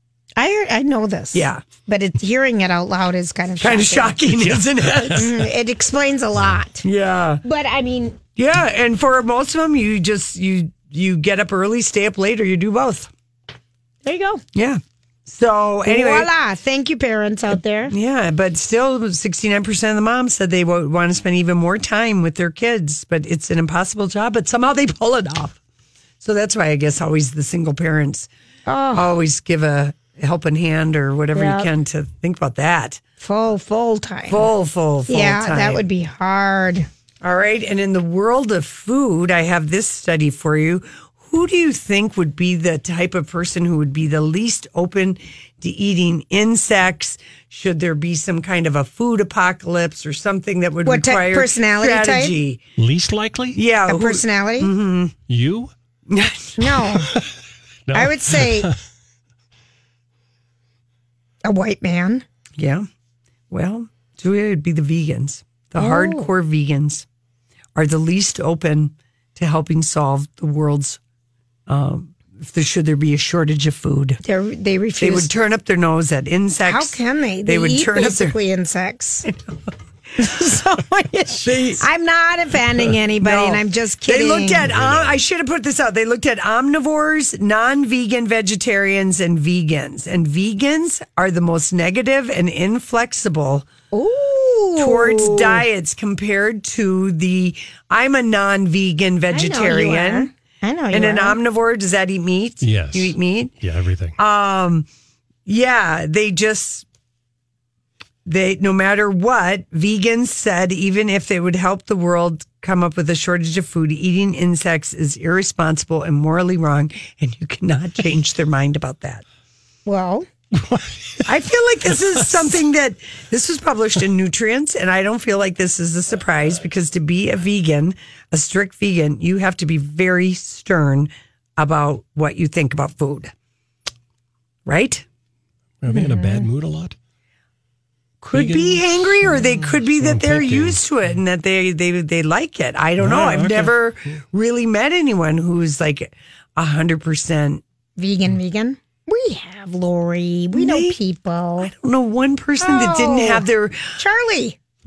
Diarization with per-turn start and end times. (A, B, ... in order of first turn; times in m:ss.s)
0:00.4-0:04.2 A
0:01.3-0:01.7 B
0:03.6-0:05.3 B
0:04.4-0:05.3 C
0:05.1-0:06.8 A
0:06.8-0:07.4 B
0:07.4-0:08.2 A
0:08.4-0:13.1 B
0:14.0-0:14.4 A
0:14.5-0:16.3 B
0:15.9-0:17.9 A
0:17.5-0:25.6 B
0:26.2-0:28.3 B
0:28.7-0:29.1 A
0:28.9-0:33.0 B
0:31.4-0:31.7 A
0:33.2-0:34.5 A
0:34.3-0:35.8 B
0:35.1-0:36.9 A
0:37.2-0:52.6 B
0:50.9-0:52.4 A
0:52.8-0:53.6 C
0:53.5-0:55.2 B
0:53.9-0:54.7 A
0:55.3-0:55.7 C
0:56.1-0:56.7 B
0:56.6-0:57.1 A
0:57.9-0:58.8 C
0:57.9-0:58.7 A
1:01.4-1:02.2 A
1:02.6-1:02.9 B
1:03.5-1:07.1 B
1:05.8-1:06.3 A
1:07.8-1:11.0 B
1:11.7-1:14.2 B
1:14.2-1:15.3 A
1:15.0-1:18.4 B
1:16.7-1:19.3 A
1:20.2-1:24.7 A
1:21.4-1:21.8 B
1:23.2-1:33.7 B
1:24.7-1:25.2 C
1:33.9-1:35.6 A
1:34.8-1:40.3 B
1:39.3-1:41.4 A
1:40.9-1:43.6 B
1:42.6-1:44.2 C
1:44.2-1:44.9 B
1:45.5-1:46.9 B
1:48.3-1:59.2 B
1:59.9-2:00.3 A
2:00.6-2:01.2 C
2:01.3-2:13.3 B
2:14.7-2:15.0 B
2:15.8-2:17.0 C
2:15.9-2:16.5 A
2:18.2-2:27.6 B
2:18.3-2:20.8 C
2:23.0-2:23.8 C
2:28.0-2:31.7 A
2:30.5-2:31.0 B
2:31.6-2:34.0 B
2:32.6-2:33.5 A
2:34.0-2:34.6 A